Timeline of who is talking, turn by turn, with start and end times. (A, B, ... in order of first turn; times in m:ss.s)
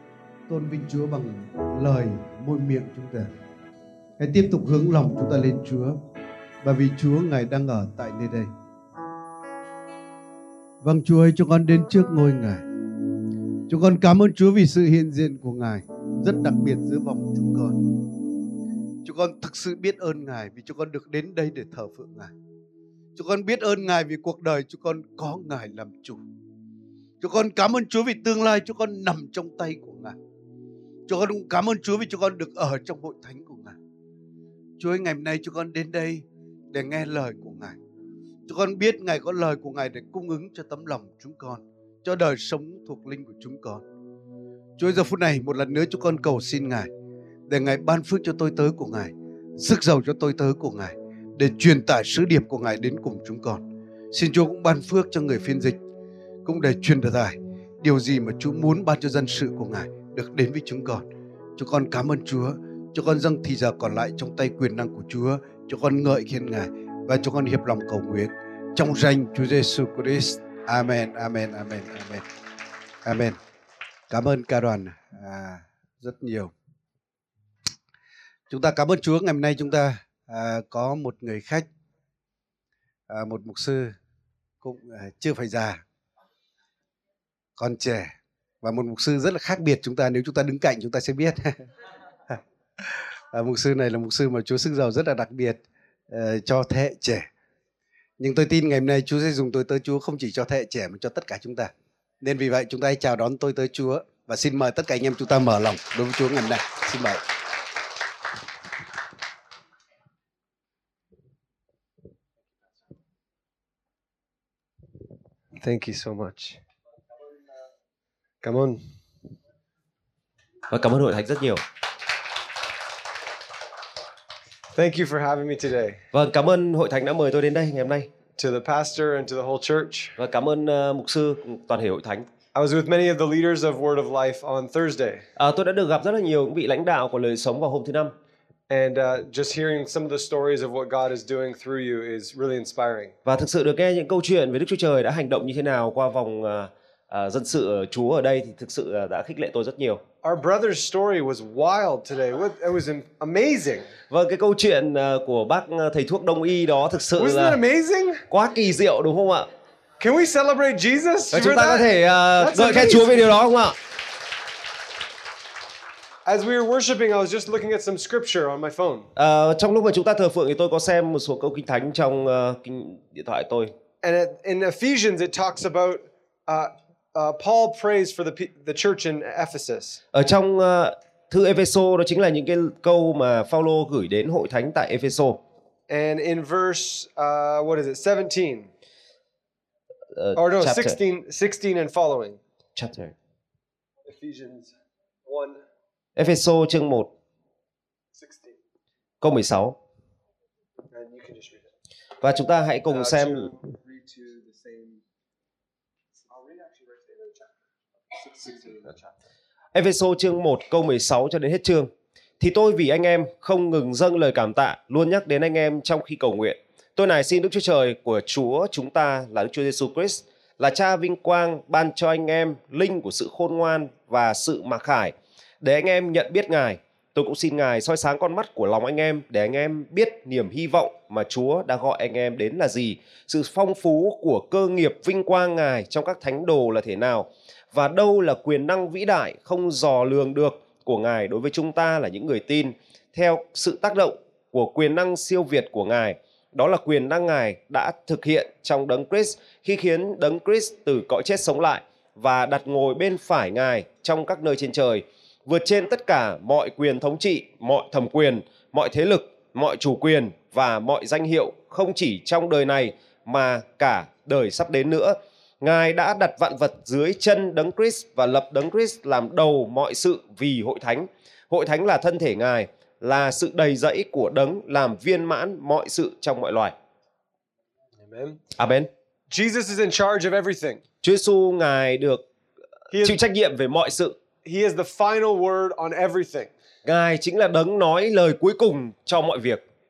0:00.5-0:03.3 A
0:04.2-0:06.0 A
0:06.6-0:08.5 A
0:10.8-0:12.6 A
0:13.7-0:17.8 A
0:19.0-0:22.3 A
0:23.2-0:26.2 A
0:27.2-0:30.2 A
0:31.1-0:33.8 A
0:34.8-0:37.8 A
0:38.5-0:43.8 A
0:44.8-0:46.9 A
0:47.5-0:55.8 A
0:56.4-1:12.2 A
1:13.0-1:13.4 A
1:14.1-1:16.5 A
1:18.5-1:21.7 A
1:23.1-1:24.0 A
1:24.6-1:25.8 A
1:27.6-1:31.7 A
1:32.3-1:37.3 A
1:38.2-1:47.2 A
1:55.6-1:56.6 B
1:58.4-1:58.8 B
2:00.7-2:01.6 C
2:04.8-2:06.0 B
2:06.1-2:08.1 C
2:08.4-2:10.2 B
2:10.2-2:12.3 C
2:12.6-2:15.2 B
2:15.4-2:18.2 C
2:18.7-2:23.1 B
2:23.2-2:30.0 C
2:30.2-2:33.9 B
2:34.1-2:37.6 C
2:37.2-2:38.2 B
2:38.3-2:39.5 C
2:40.0-2:43.4 B
2:41.3-2:43.8 C
2:46.3-2:49.1 B
2:49.2-2:53.7 C
2:54.0-3:00.0 B
3:00.1-3:05.4 C
3:05.9-3:08.7 B
3:10.2-3:11.0 C
3:10.4-3:12.4 B
3:12.8-3:13.1 C
3:14.0-3:14.7 B
3:15.2-3:15.6 B
3:16.2-3:17.1 C
3:18.2-3:18.6 B
3:19.2-3:19.8 C
3:20.9-3:21.7 B
3:22.2-3:23.5 C
3:22.9-3:25.0 B
3:26.2-3:27.5 B
3:28.1-3:29.1 B
3:29.7-4:36.7 C
4:38.0-4:38.4 B
4:38.6-4:38.9 C
4:39.3-4:40.8 B
4:41.0-4:42.2 C
4:42.9-4:43.2 B
4:43.0-4:44.2 C
4:44.4-4:46.5 B
4:46.8-4:49.6 C